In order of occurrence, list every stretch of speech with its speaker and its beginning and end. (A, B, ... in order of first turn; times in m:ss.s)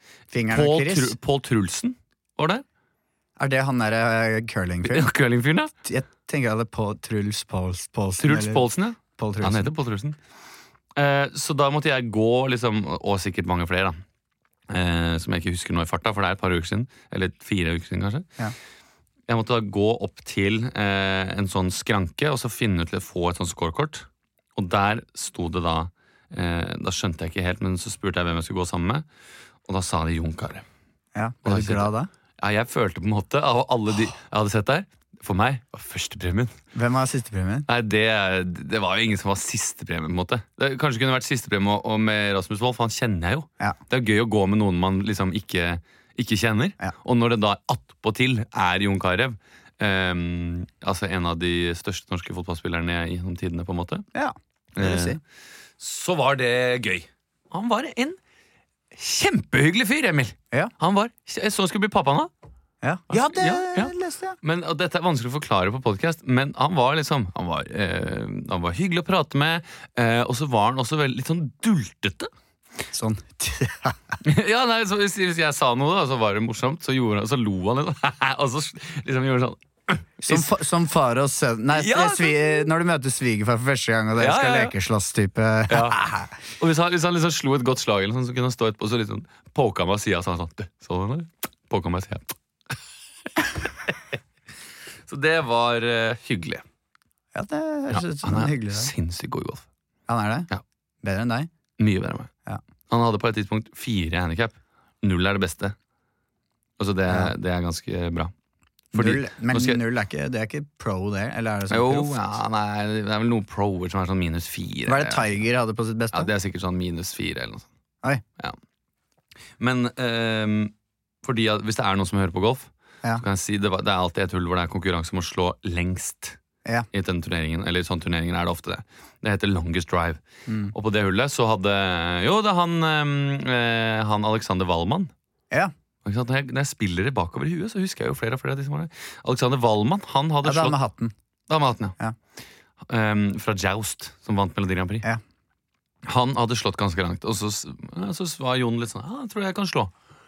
0:00.3-0:01.1 A
0:00.5-0:02.6 B
0:03.4-0:05.1 A
0:04.8-0:05.7 B
0:05.8-0:09.7 A
0:08.2-0:10.2 B
0:11.0-0:14.0 B
0:14.7-0:18.3 B
0:19.3-0:29.0 B
0:29.6-0:30.6 B
0:31.1-0:32.1 A
0:31.4-0:36.5 B
0:36.7-0:37.7 A
0:37.7-0:54.0 B
0:54.1-0:55.2 A
0:54.7-0:55.2 B
0:55.8-0:58.2 B
0:58.9-1:02.3 B
1:02.8-1:04.4 A
1:03.1-1:12.3 B
1:12.9-1:14.0 A
1:14.2-1:20.5 B
1:20.2-1:26.3 A
1:21.7-1:22.7 B
1:24.2-1:24.7 B
1:25.7-1:26.0 B
1:26.6-1:32.3 B
1:33.4-1:33.9 B
1:35.1-1:36.6 B
1:37.3-1:38.9 A
1:37.9-1:39.6 B
1:40.1-1:40.5 A
1:41.0-1:41.5 A
1:41.8-1:42.3 B
1:42.9-1:45.8 B
1:46.8-1:48.3 B
1:47.1-1:47.3 A
1:48.9-1:49.8 B
1:48.9-1:52.2 A
1:51.7-1:55.3 B
1:54.8-1:56.3 A
1:56.1-1:57.7 B
1:59.6-2:06.4 B
2:06.9-2:10.2 B
2:10.5-2:10.7 A
2:10.7-2:15.1 B
2:16.0-2:20.8 B
2:20.4-2:21.1 A
2:21.5-2:22.0 B
2:22.8-2:25.0 B
2:26.0-2:29.9 B